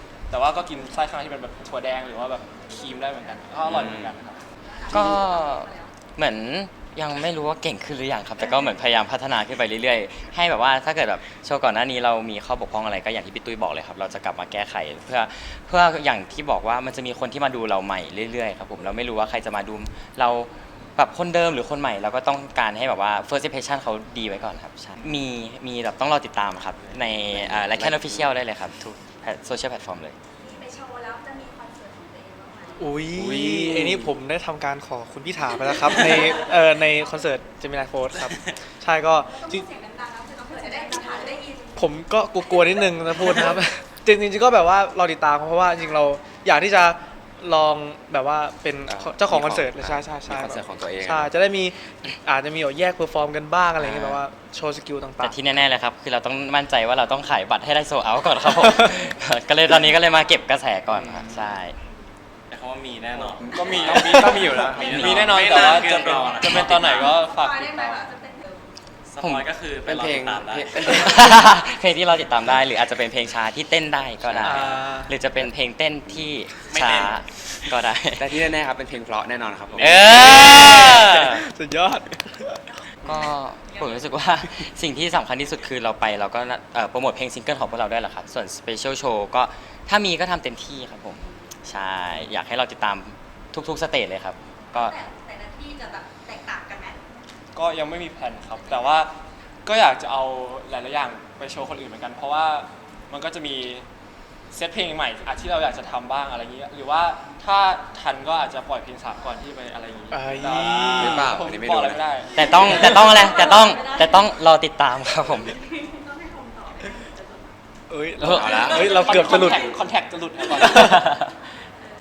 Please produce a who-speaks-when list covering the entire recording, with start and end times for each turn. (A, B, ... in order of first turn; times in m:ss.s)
0:00.3-0:04.4 A
0:03.6-0:04.1 B
0:04.9-0:30.2 C
0:27.0-0:28.3 B
0:31.2-0:31.5 D
0:32.8-0:39.7 E
0:33.2-0:34.2 B
0:38.2-0:38.5 F
0:39.7-0:41.5 D
0:41.8-0:55.4 E
0:48.9-0:51.3 B
0:53.8-0:54.2 C
0:55.2-1:01.8 C
0:58.5-0:59.0 E
1:01.0-1:01.4 B
1:02.5-1:07.2 F
1:03.3-1:08.2 A
1:04.8-1:05.4 C
1:09.1-1:11.2 F
1:09.2-1:09.5 C
1:09.8-1:11.2 B
1:10.9-1:18.5 C
1:14.4-1:15.2 E
1:16.6-1:17.2 F
1:18.2-1:21.0 B
1:19.8-1:21.4 C
1:20.4-1:22.6 E
1:23.0-1:35.0 C
1:34.8-1:36.9 D
1:37.6-1:43.9 A
1:44.5-1:53.0 A
1:50.1-1:51.3 E
1:50.9-1:52.0 B
1:52.3-1:55.6 C
1:53.3-1:53.8 D
1:57.9-1:59.7 E
1:58.3-2:01.0 A
1:58.3-1:58.9 B
2:00.5-2:01.1 E
2:00.8-2:01.3 C